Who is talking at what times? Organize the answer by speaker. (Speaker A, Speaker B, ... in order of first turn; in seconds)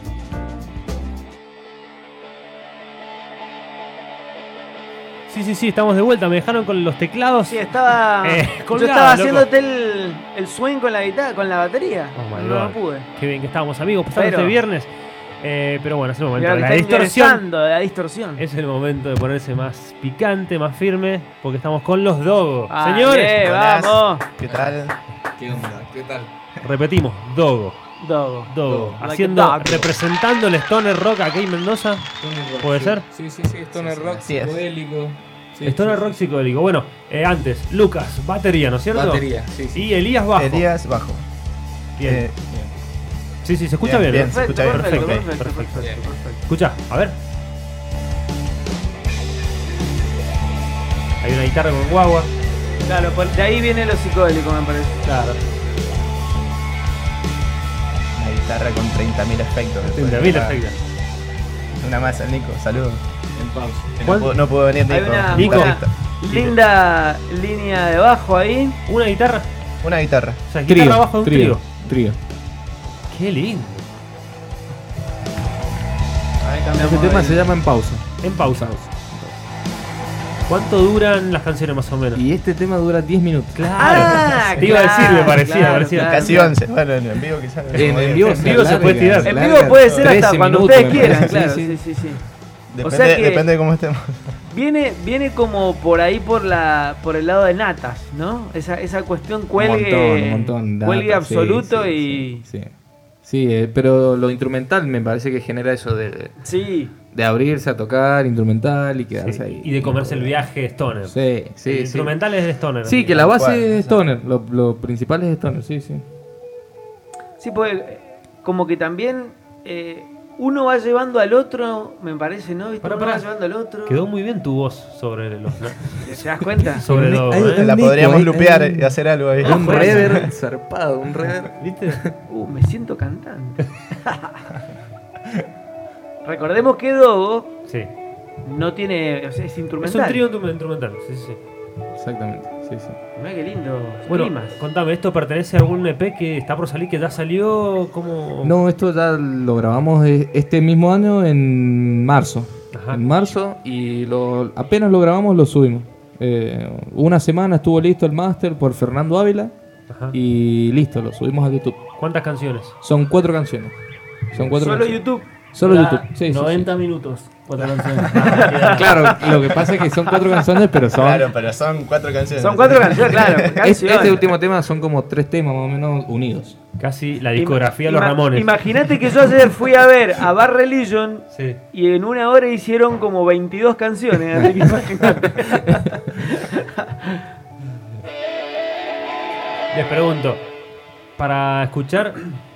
Speaker A: 5.3-9.5, 12.1-17.4, 18.4-23.4, 26.6-27.8, 28.5-32.1, 32.6-33.0, 35.6-40.7, 42.0-42.3, 43.4-45.9, 46.5-47.2, 51.2-52.3, 55.0-55.4, 59.8-60.8, 64.0-64.4, 65.3-66.6, 68.9-69.5, 70.5-71.6, 73.1-73.9, 78.2-78.9, 80.5-82.2, 83.5-86.4, 87.7-89.7, 109.2-113.2, 122.8-123.3, 123.8-127.7, 129.5-130.1, 131.2-132.0, 139.8-141.4, 144.1-148.6, 152.7-153.0, 159.9-160.2, 162.0-162.7, 168.1-168.9, 176.8-178.9, 181.3-181.6, 189.7-190.4, 191.2-192.2
Speaker B: 7.5-13.1, 14.1-14.6, 16.4-18.4, 22.7-24.2, 28.0-29.9, 44.2-46.4, 52.8-55.0, 64.9-68.8, 76.4-77.6, 83.8-86.5, 89.0-92.2, 92.8-93.5, 94.5-102.5, 106.4-106.9, 117.4-124.0, 126.0-126.8, 129.5-130.0, 132.3-134.4, 136.2-137.5, 138.4-140.2, 143.2-144.6, 164.4-165.3, 168.2-168.6, 172.4-174.3, 177.3-187.2
Speaker C: 23.4-25.0, 34.0-34.6, 40.4-41.2, 42.0-42.3, 43.8-45.3, 58.1-60.6, 61.7-65.9, 69.8-70.4, 86.0-88.5, 89.7-90.1, 91.0-91.4, 92.7-94.2, 113.2-114.0, 127.5-130.3, 167.6-168.7, 170.9-173.6
Speaker D: 24.4-24.7, 25.4-26.3, 28.6-29.0, 32.2-36.1, 38.9-39.9, 63.4-64.0, 70.7-72.2, 76.7-79.3, 82.1-84.1, 87.7-91.8, 99.5-102.7, 103.2-106.3, 107.1-110.3, 111.0-112.2, 112.8-116.0, 126.9-132.2, 141.9-143.0, 148.4-159.5, 160.1-161.9, 162.8-163.8, 164.3-165.0, 165.5-166.7, 168.2-171.3, 173.6-176.6
Speaker E: 165.6-169.2